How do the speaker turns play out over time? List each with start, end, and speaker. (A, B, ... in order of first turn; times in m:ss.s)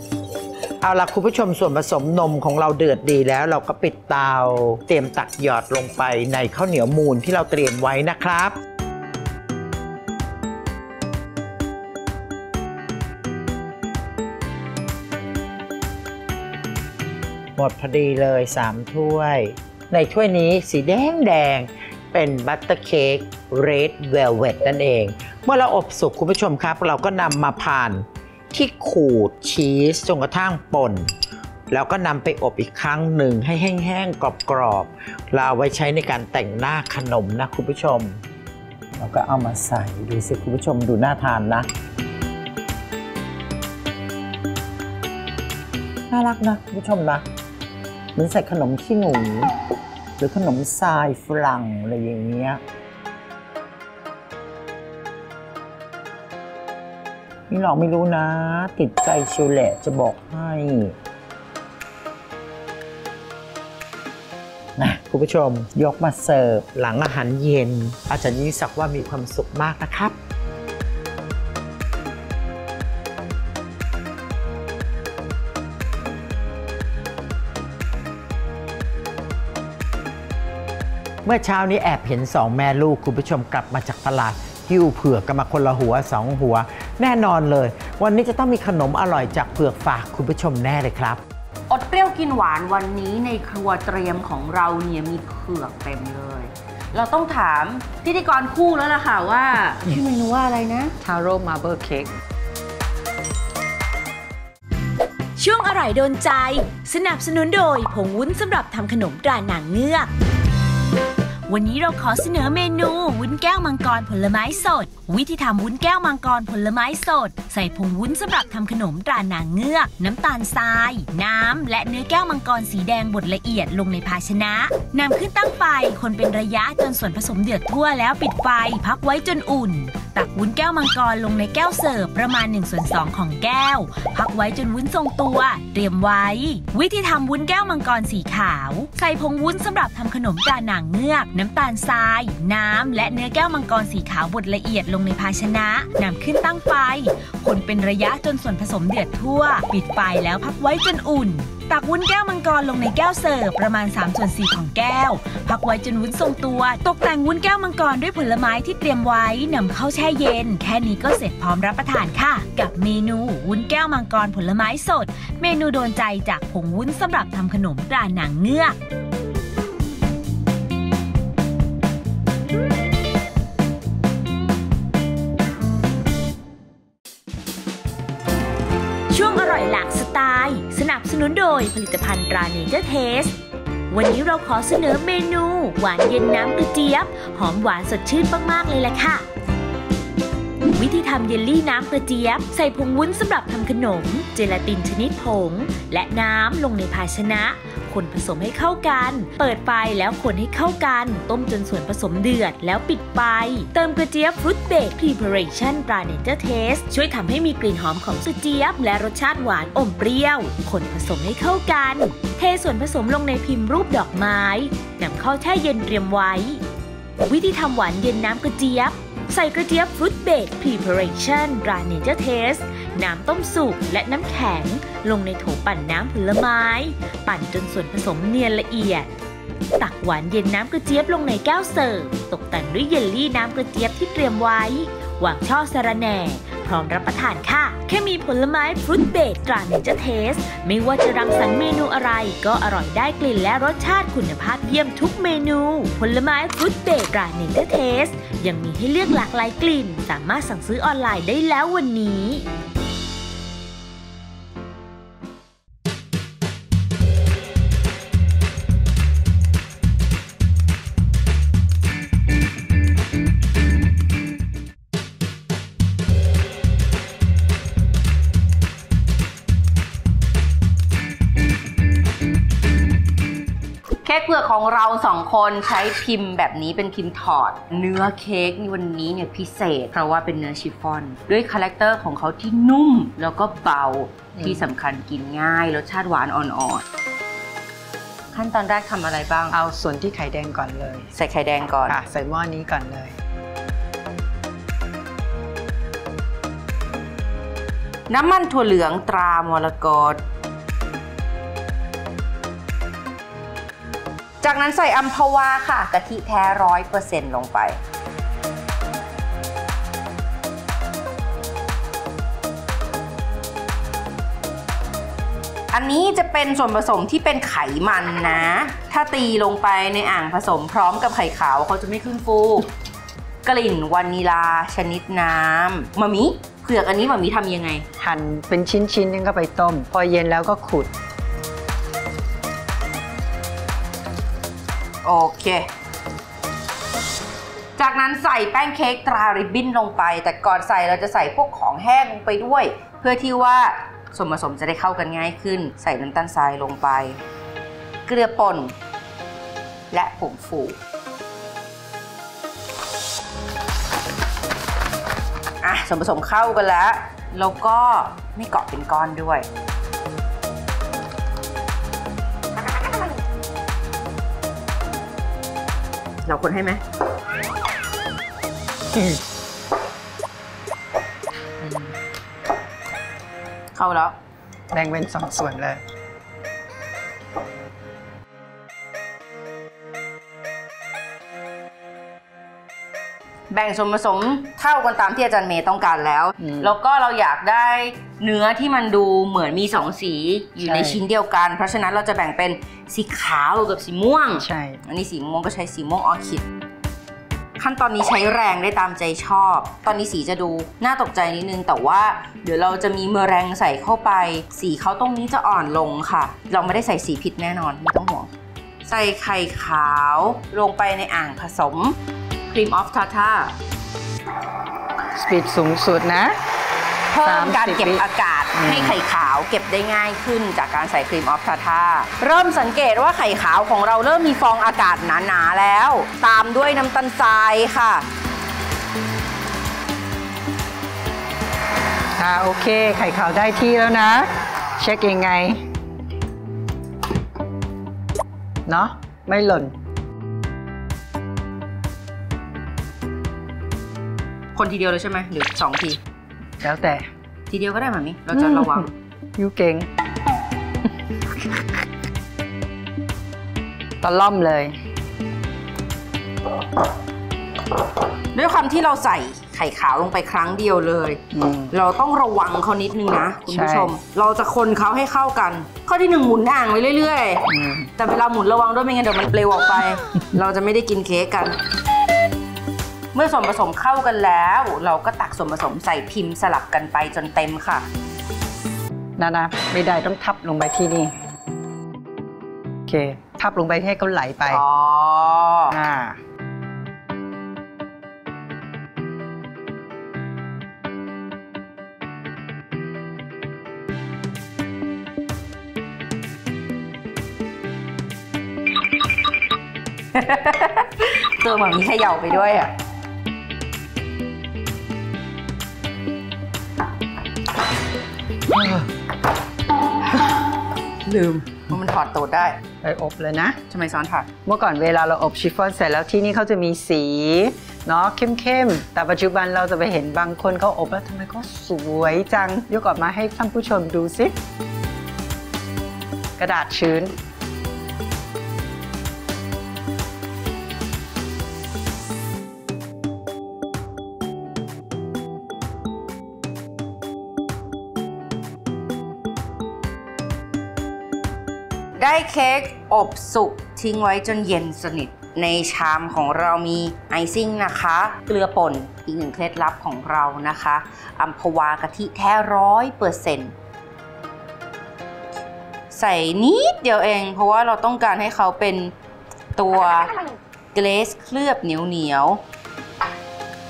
0:00.8-0:08.6 A
0:17.6-0:31.1 A
0:31.7-0:38.2 A
0:39.0-0:41.7 A
0:46.1-0:47.2 A
0:48.2-0:49.5 A
0:50.2-0:52.6 A
0:57.5-1:01.0 A
1:04.8-1:10.2 A
1:21.2-1:31.2 A
1:31.7-1:40.9 B
1:41.0-1:42.1 C
1:45.4-1:50.1 D
1:51.5-2:48.8 D
2:59.1-3:03.3 D
3:03.9-3:09.3 D
3:10.7-3:36.6 D
3:37.2-3:49.1 D
3:49.8-4:12.4 D
4:34.0-4:46.8 B
4:44.4-4:44.7 C
4:48.3-4:49.6 B
4:49.5-4:51.1 C
4:51.1-4:52.0 B
4:51.9-4:53.1 C
4:58.1-5:00.2 B
5:04.4-5:07.8 B
5:15.7-5:22.7 B
5:23.4-5:27.9 B
5:28.0-5:30.9 C
5:35.0-5:35.7 B
5:37.8-5:47.2 B
5:48.1-5:48.7 B
5:49.9-5:50.8 B
5:55.6-5:59.5 B
6:06.2-6:06.8 B
6:08.9-6:09.2 C
6:11.6-6:12.0 C
6:13.8-6:14.2 B
6:14.7-6:15.8 C
6:23.5-6:36.4 B
6:26.4-6:26.7 C
6:30.6-6:31.0 C
6:34.4-6:34.8 C
6:37.6-6:48.3 B
6:48.9-6:52.0 B
6:52.5-6:53.5 B
6:55.1-6:56.4 C
6:57.1-7:08.1 B
6:57.2-6:58.0 C
6:58.5-6:59.0 C
7:12.2-7:15.6 C
7:18.7-7:19.7 C
7:24.6-7:26.0 B
7:26.6-7:27.1 C
7:27.5-7:28.9 B
7:28.3-7:29.9 C
7:31.4-7:31.7 C
7:34.0-7:34.8 C
7:38.3-7:51.6 B
7:41.3-7:41.7 C
7:43.5-7:43.9 C
7:47.5-7:47.9 C
7:53.1-7:57.9 B
7:59.2-8:01.1 C
8:02.9-8:04.6 C
8:04.5-8:05.8 B
8:05.7-8:06.2 C
8:20.1-8:22.7 B
8:28.5-8:28.9 C
8:31.1-8:32.6 B
8:32.8-8:33.6 C
8:33.7-8:34.3 B
8:34.5-8:44.3 C
8:46.4-8:47.1 C
9:02.0-9:13.6 B
9:15.9-9:18.9 B
9:19.6-9:20.1 B
9:20.8-9:22.4 B